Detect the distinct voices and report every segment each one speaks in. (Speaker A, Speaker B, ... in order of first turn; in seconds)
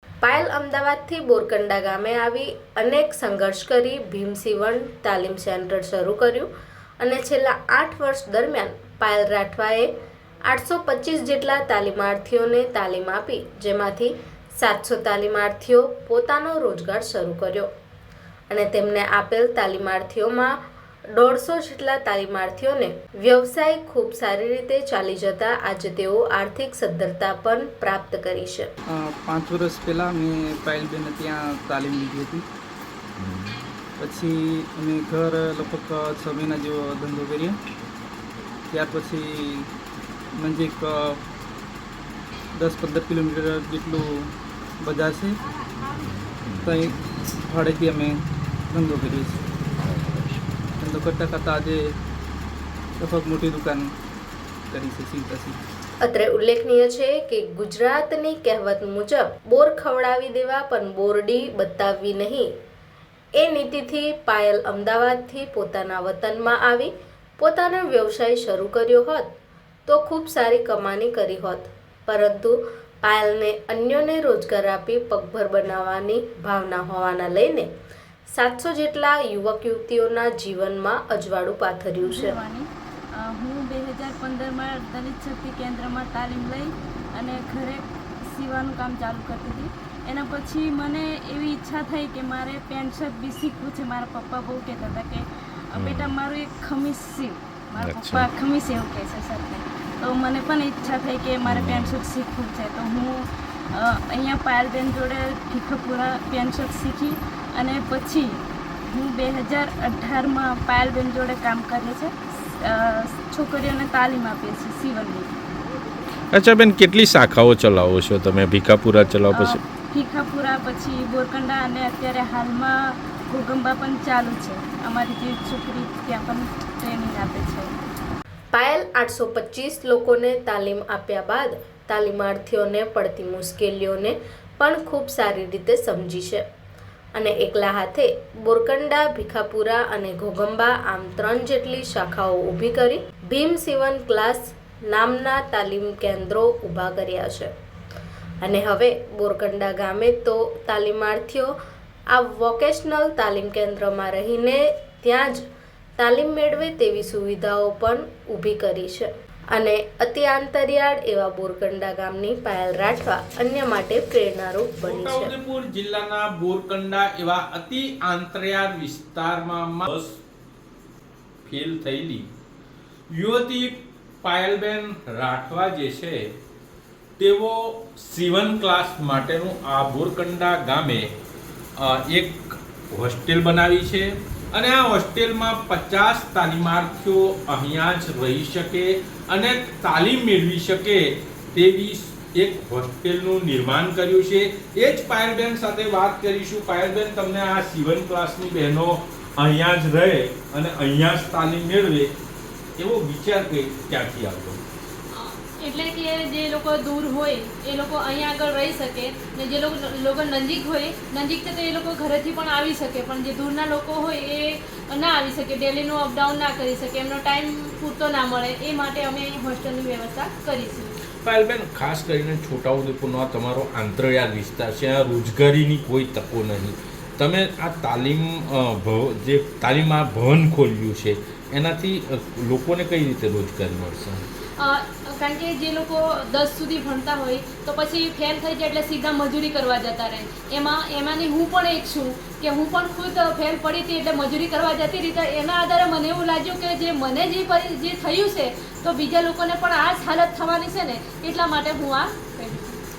Speaker A: 0.2-6.5, 7.0-9.9, 10.5-17.7, 18.5-20.6, 21.1-28.7, 56.0-62.5, 63.4-69.3, 69.9-77.7, 78.3-82.4, 128.5-136.4, 137.2-147.5, 148.4-151.5, 152.1-155.4, 156.0-165.3
Speaker B: 28.9-32.5, 34.0-37.6, 38.7-39.7, 40.4-41.2, 42.5-44.3, 44.8-45.4, 46.6-47.0, 47.5-48.2, 48.7-49.4, 50.8-51.8, 53.0-53.9, 54.7-55.6
Speaker C: 33.2-33.6, 46.0-46.6, 49.8-50.5, 95.8-96.1, 97.8-98.3, 101.5-102.0, 116.3-119.6, 164.8-170.2, 171.4-172.3, 173.1-176.2, 177.2-181.1, 181.8-202.1, 202.8-204.6, 221.2-234.2
Speaker D: 82.0-115.3, 119.3-127.7
Speaker E: 205.1-221.0, 234.6-252.8